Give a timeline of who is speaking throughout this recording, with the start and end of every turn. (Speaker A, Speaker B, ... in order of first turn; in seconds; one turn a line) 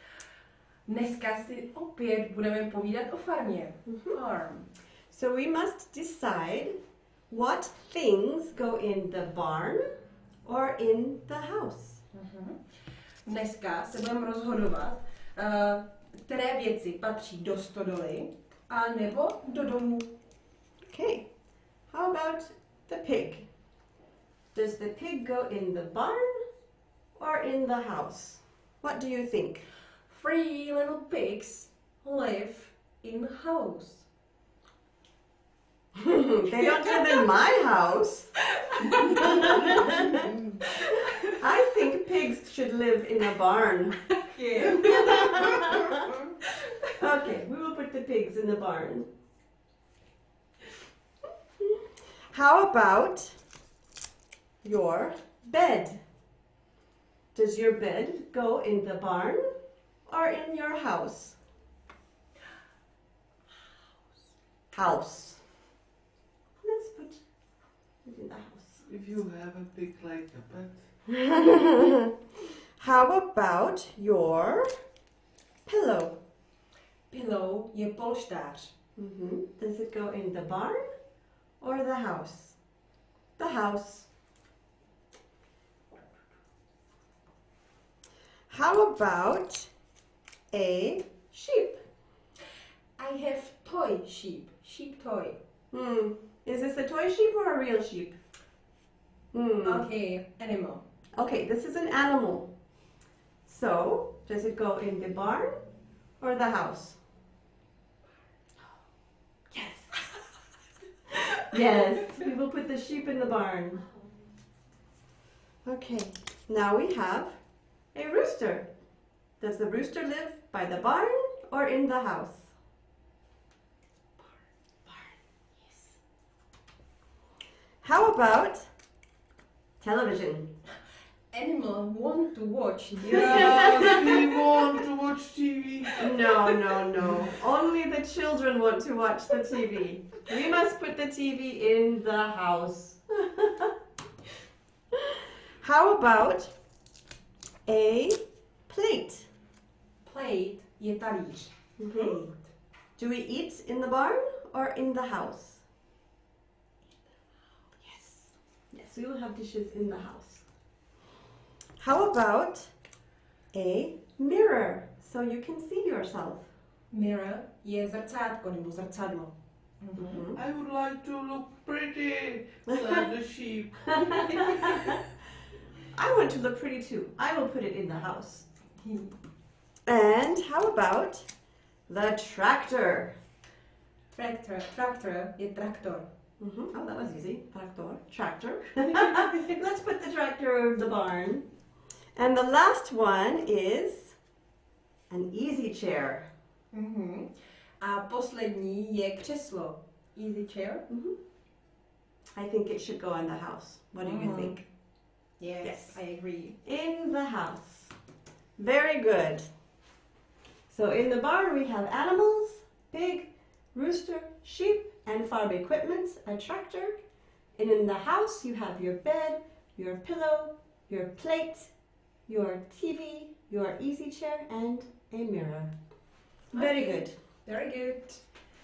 Speaker A: 0.8-4.7
Speaker B: 3.9-4.2
Speaker B: 5.1-6.8
Speaker B: 7.3-9.9
Speaker B: 10.4-12.0
Speaker A: 12.1-12.6
Speaker A: 13.2-20.1
Speaker B: 20.9-21.3
Speaker B: 21.9-23.5
Speaker B: 24.5-26.4
Speaker B: 27.2-29.6
Speaker A: 30.1-34.0
Speaker B: 35.9-38.3
Speaker A: 36.6-37.2
Speaker A: 38.5-41.3
Speaker B: 38.9-40.3
Speaker B: 41.4-44.0
Speaker A: 44.1-46.9
Speaker B: 44.6-45.9
Speaker B: 47.0-49.1
Speaker B: 52.3-53.4
Speaker B: 54.6-56.0
Speaker B: 57.3-59.5
Speaker B: 60.1-61.4
Speaker B: 64.7-65.4
Speaker B: 66.6-67.2
Speaker B: 68.0-68.8
Speaker C: 68.9-70.8
Speaker B: 71.1-74.7
Speaker B: 75.7-76.2
Speaker A: 77.1-78.7
Speaker B: 79.0-80.8
Speaker B: 81.6-82.5
Speaker B: 83.4-84.1
Speaker B: 88.5-89.7
Speaker B: 90.5-91.8
Speaker A: 93.0-95.4
Speaker B: 95.7-98.2
Speaker B: 99.3-99.8
Speaker A: 99.6-100.8
Speaker B: 101.1-102.5
Speaker B: 103.5-105.6
Speaker B: 106.2-107.0
Speaker B: 109.5-109.9
Speaker B: 111.5-113.8
Speaker B: 115.6-117.3
Speaker B: 117.9-118.7
Speaker B: 119.4-122.5
Speaker A: 124.8-125.9
Speaker B: 127.8-128.7
Speaker B: 129.8-130.5
Speaker A: 131.3-134.4
Speaker C: 133.0-136.1
Speaker B: 133.1-134.1
Speaker B: 136.0-143.7
Speaker A: 136.1-136.4
Speaker B: 144.9-146.5
Speaker B: 147.7-149.3
Speaker A: 150.0-152.3
Speaker B: 151.8-152.3
Speaker B: 153.0-155.6
Speaker B: 158.7-160.4
Speaker B: 161.8-162.7
Speaker B: 163.5-166.5
Speaker A: 166.9-170.2
Speaker B: 169.9-170.4
Speaker C: 170.3-175.0
Speaker B: 174.4-174.9
Speaker B: 175.9-178.5
Speaker A: 178.8-179.1
Speaker B: 179.8-181.3
Speaker B: 181.9-183.1
Speaker A: 184.1-186.1
Speaker B: 186.4-191.4
Speaker A: 188.9-189.5
Speaker B: 192.1-194.2
Speaker B: 195.1-196.3
Speaker A: 196.7-200.8
Speaker B: 200.9-201.2
Speaker B: 202.3-204.6
Speaker A: 204.0-204.6
Speaker A: 205.4-206.6
Speaker B: 205.6-206.0
Speaker B: 206.6-207.9
Speaker B: 208.6-209.5
Speaker B: 210.7-217.0
Speaker B: 217.6-221.7
Speaker B: 222.3-225.7
Speaker B: 226.5-227.1
Speaker A: 226.5-228.2